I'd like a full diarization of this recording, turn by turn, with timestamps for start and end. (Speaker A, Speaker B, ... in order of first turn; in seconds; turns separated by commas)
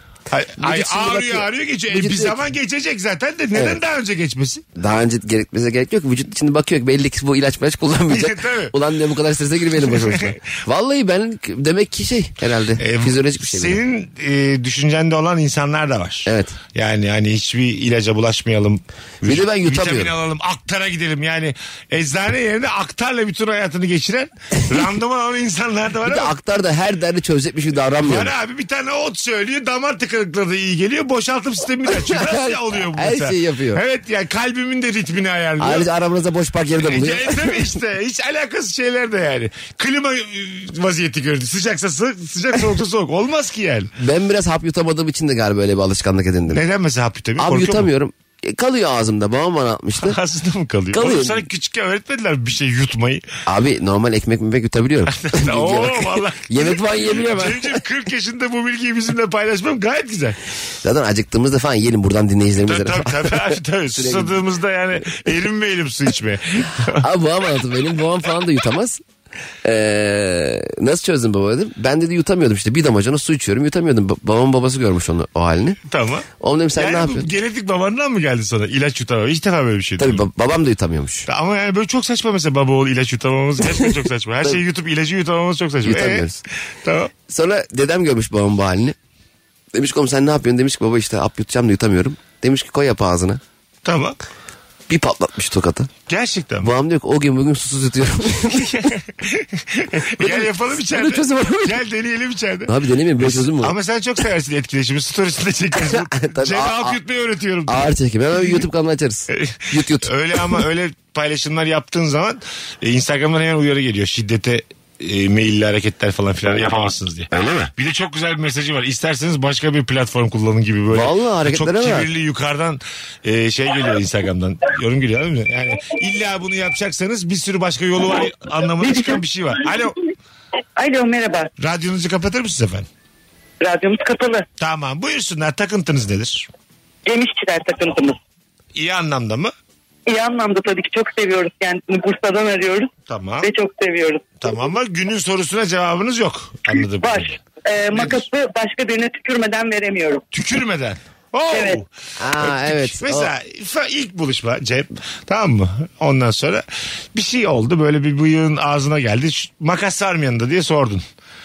Speaker A: 0.3-4.6, Speaker B: 0.6-2.4, Speaker B: 3.5-3.8, Speaker B: 4.8-13.8, Speaker A: 8.1-8.7, Speaker A: 9.8-10.3, Speaker A: 12.8-26.3, Speaker B: 16.2-16.6, Speaker B: 19.2-20.1, Speaker B: 26.1-28.3, Speaker A: 28.0-35.9, Speaker B: 31.9-33.8, Speaker B: 35.6-37.8, Speaker A: 36.8-43.9, Speaker B: 44.0-46.6, Speaker A: 46.5-47.9, Speaker B: 47.4-50.2, Speaker A: 50.0-53.2, Speaker B: 50.9-51.4, Speaker B: 53.5-57.8, Speaker A: 55.1-60.4, Speaker B: 60.8-64.4, Speaker A: 62.6-67.0, Speaker B: 67.0-69.0, Speaker B: 69.6-75.8, Speaker A: 75.9-80.2, Speaker B: 76.4-77.3, Speaker B: 80.0-81.3, Speaker A: 81.3-86.3, Speaker B: 85.8-86.4, Speaker A: 86.8-87.1, Speaker B: 87.3-88.9, Speaker B: 89.7-93.4, Speaker A: 93.8-94.2, Speaker B: 94.9-95.9, Speaker A: 96.1-96.7, Speaker B: 96.6-98.7, Speaker A: 98.5-107.9, Speaker B: 100.2-101.8, Speaker B: 102.7-103.8, Speaker B: 105.7-107.0, Speaker B: 107.7-110.6, Speaker A: 109.3-129.9, Speaker B: 117.3-117.7, Speaker B: 120.9-122.1, Speaker C: 128.8-129.2, Speaker C: 130.8-131.5, Speaker A: 131.6-132.9, Speaker C: 133.6-134.4, Speaker A: 134.6-136.5, Speaker C: 137.1-138.2, Speaker A: 138.7-139.5, Speaker C: 140.1-142.9, Speaker A: 143.1-143.5, Speaker C: 143.4-144.3, Speaker A: 144.4-147.4, Speaker C: 147.0-150.2, Speaker A: 147.9-148.2, Speaker A: 150.3-151.9, Speaker C: 151.5-151.8, Speaker B: 152.2-153.3, Speaker A: 152.4-161.0